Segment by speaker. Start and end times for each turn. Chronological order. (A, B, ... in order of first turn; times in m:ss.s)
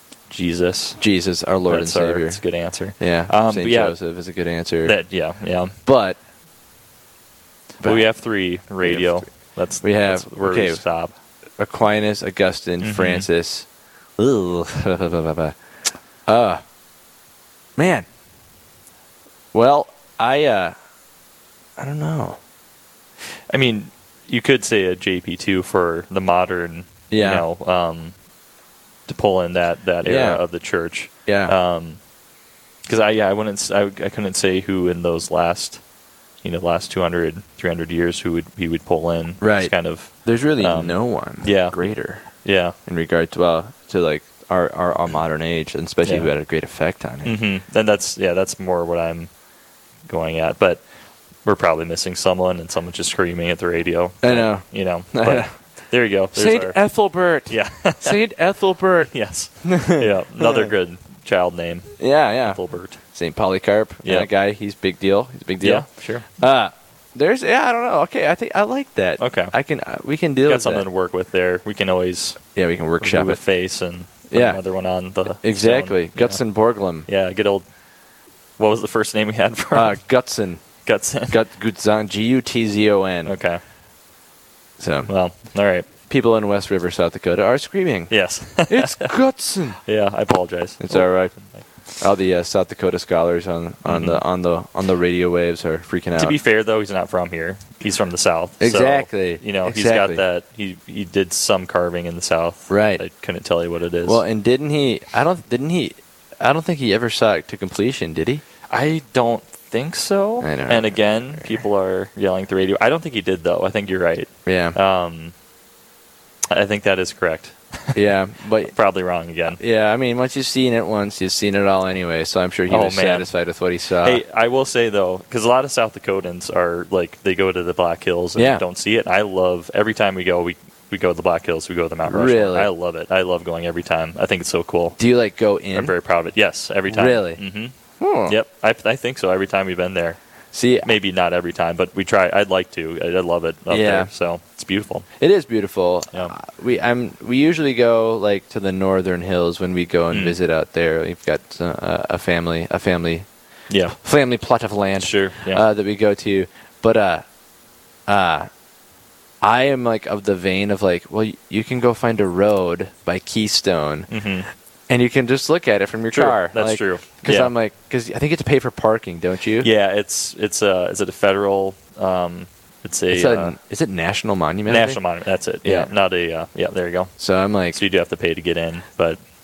0:00.3-0:01.0 A
0:01.0-0:02.4 B
0:01.7-0:04.0 A
0:03.0-0:05.0 B
0:04.8-0:05.8 A
0:05.8-0:06.2 B
0:07.8-0:08.1 B
0:07.8-0:11.1 A
0:08.8-0:09.3 B
0:09.8-0:10.8 B
0:11.6-0:13.7 B
0:12.8-0:13.3 A
0:14.2-0:15.6 B
0:16.3-0:16.6 B
0:17.8-0:18.1 B
0:19.5-0:20.8 B
0:21.8-0:22.4 B
0:23.5-0:28.1 A
0:27.1-0:27.4 B
0:29.1-0:32.0 A
0:30.0-0:30.4 B
0:31.3-0:31.5 B
0:32.9-0:35.8 A
0:36.4-0:41.8 A
0:39.4-0:39.7 B
0:40.2-0:42.2 B
0:42.3-0:42.8 A
0:42.9-0:47.4 B
0:46.0-0:46.3 A
0:47.2-0:49.3 A
0:50.1-0:50.8 A
0:51.4-0:56.8 A
0:54.2-0:55.5 B
0:56.4-0:59.1 B
0:57.5-0:58.2 A
0:59.1-1:03.0 A
0:59.6-1:00.7 B
1:02.0-1:02.6 B
1:03.2-1:05.9 B
1:05.6-1:06.3 A
1:06.4-1:10.8 B
1:09.2-1:09.5 A
1:10.5-1:12.4 A
1:12.6-1:13.4 B
1:13.0-1:16.4 A
1:14.3-1:14.6 B
1:15.4-1:17.1 B
1:17.1-1:17.6 A
1:18.6-1:20.0 A
1:19.7-1:20.6 B
1:20.8-1:21.4 A
1:21.3-1:23.3 B
1:23.3-1:23.6 A
1:24.8-1:25.1 B
1:25.1-1:25.9 A
1:26.1-1:28.1 B
1:28.1-1:29.1 A
1:28.7-1:29.8 B
1:29.8-1:31.6 A
1:30.8-1:31.3 B
1:32.0-1:36.4 B
1:33.9-1:34.2 A
1:36.2-1:44.2 A
1:38.6-1:40.2 B
1:42.7-1:43.0 B
1:44.1-1:48.4 B
1:48.7-1:55.3 A
1:50.4-1:51.5 B
1:54.5-1:54.8 B
1:56.5-1:58.0 A
1:57.9-1:58.7 B
1:58.7-1:59.6 A
1:59.6-2:04.2 B
2:02.7-2:03.3 A
2:04.0-2:15.0 A
2:08.4-2:08.6 B
2:12.1-2:12.7 B
2:15.0-2:15.9 B
2:15.7-2:17.7 A
2:16.9-2:17.4 B
2:18.0-2:18.4 B
2:18.3-2:20.2 A
2:20.5-2:20.9 B
2:20.8-2:25.1 A
2:23.7-2:24.1 B
2:25.2-2:33.3 B
2:30.1-2:30.4 A
2:33.7-2:34.0 A
2:34.0-2:37.2 B
2:35.0-2:35.6 A
2:38.1-2:38.5 B
2:39.4-2:44.1 B
2:44.1-2:44.5 A
2:44.9-2:49.7 B
2:46.1-2:47.5 A
2:49.6-2:53.6 A
2:53.1-2:55.0 B
2:54.7-2:57.1 A
2:55.6-2:55.9 B
2:57.2-2:57.8 B
2:57.7-2:59.2 A